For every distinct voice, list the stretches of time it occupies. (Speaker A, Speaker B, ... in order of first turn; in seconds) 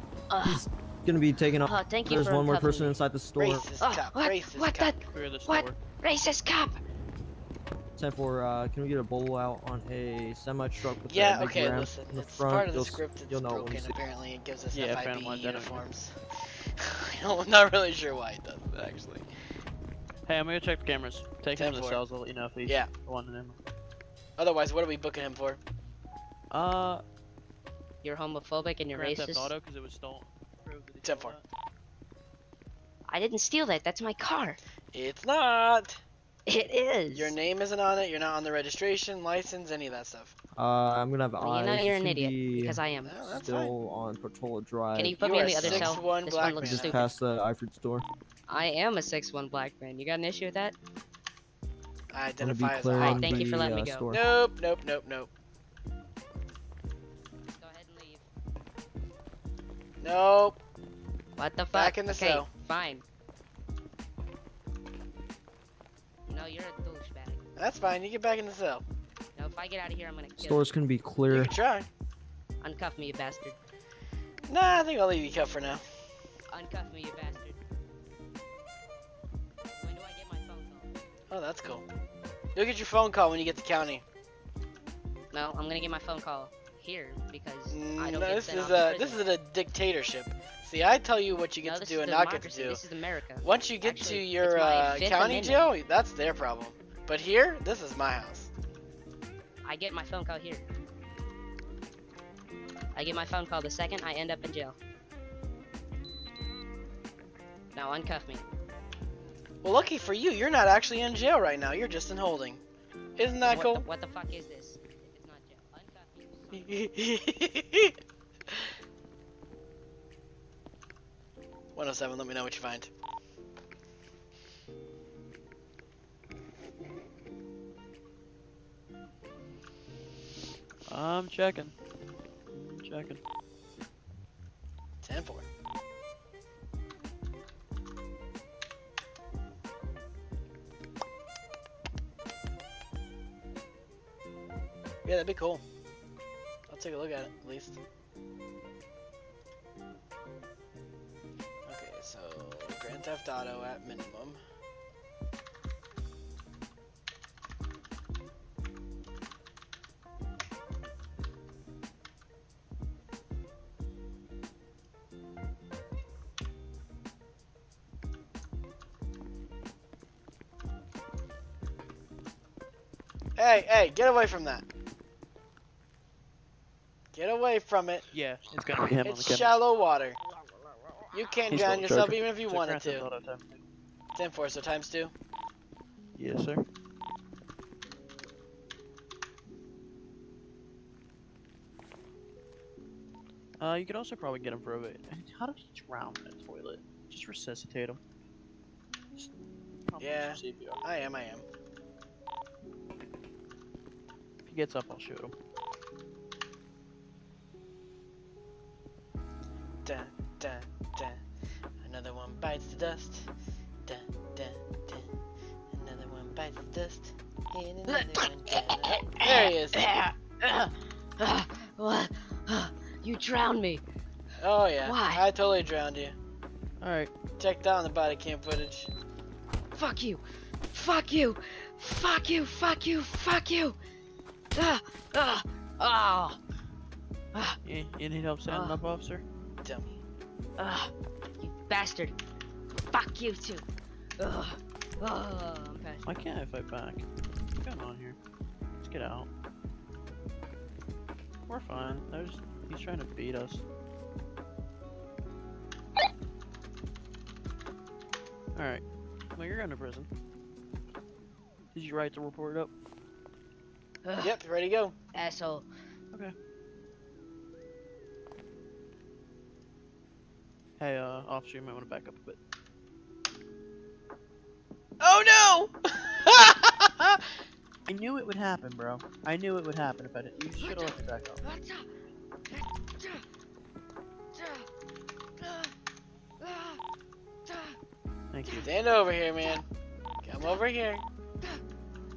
Speaker A: 0.3-0.7, 1.6-3.0, 3.8-6.8, 28.0-29.5, 33.1-34.6, 36.5-37.3, 41.4-43.2, 45.0-47.1, 48.5-50.8, 52.9-54.1, 57.5-58.2, 61.4-63.0, 66.3-67.4, 69.4-70.7, 72.6-73.6, 76.5-77.6, 79.8-80.9, 85.3-89.3, 91.6-95.7, 99.6-100.7, 102.9-104.8, 107.7-108.5, 113.4-117.0, 217.9-223.8, 224.8-225.2, 229.8-233.8, 234.5-236.4, 237.3-237.6, 238.5-238.8, 240.6-242.1, 242.9-243.6, 244.2-246.1, 264.0-264.4, 265.1-265.7, 280.6-281.9, 282.5-283.2, 284.4-284.7, 285.4-285.7, 286.4-286.8, 287.5-287.8
Speaker B: 0.4-3.6, 8.0-13.9, 40.5-46.0, 46.6-48.0, 52.4-54.2, 70.4-71.5
Speaker C: 3.4-5.0, 11.1-19.3, 21.5-22.0, 24.4-25.6, 31.0-31.4, 34.9-36.0, 37.1-40.3, 43.0-43.7, 45.2-47.1, 52.1-53.4, 54.1-55.3, 60.0-60.6, 61.7-62.5, 67.6-68.8, 71.3-71.9, 74.5-75.8, 81.3-81.8, 82.5-84.0, 87.7-92.8, 93.4-98.5, 109.6-112.6, 113.2-113.9, 116.5-117.9, 121.7-122.9, 135.0-135.5, 145.1-145.6, 146.7-147.8, 151.7-154.4, 173.4-174.7, 177.1-178.1, 179.0-180.2, 181.1-183.1, 184.2-185.1, 200.0-201.4, 209.8-211.2, 211.8-213.3, 213.9-215.1, 215.7-219.8, 224.4-226.2, 227.4-228.9, 239.6-240.0, 264.2-264.9, 275.0-277.2, 288.6-289.6, 290.2-291.0
Speaker D: 5.1-5.8, 14.7-15.8, 20.2-23.6, 26.5-27.0, 28.9-31.4, 130.9-131.7, 132.5-133.2, 178.1-179.6, 181.5-183.6, 186.1-186.6, 193.6-198.0, 199.8-200.8, 204.4-205.3, 226.8-227.1, 237.6-239.2, 246.0-248.2, 248.8-249.3, 251.5-253.6, 258.5-258.8, 259.3-260.1, 261.7-262.7, 270.8-272.4, 277.9-281.4, 288.3-288.7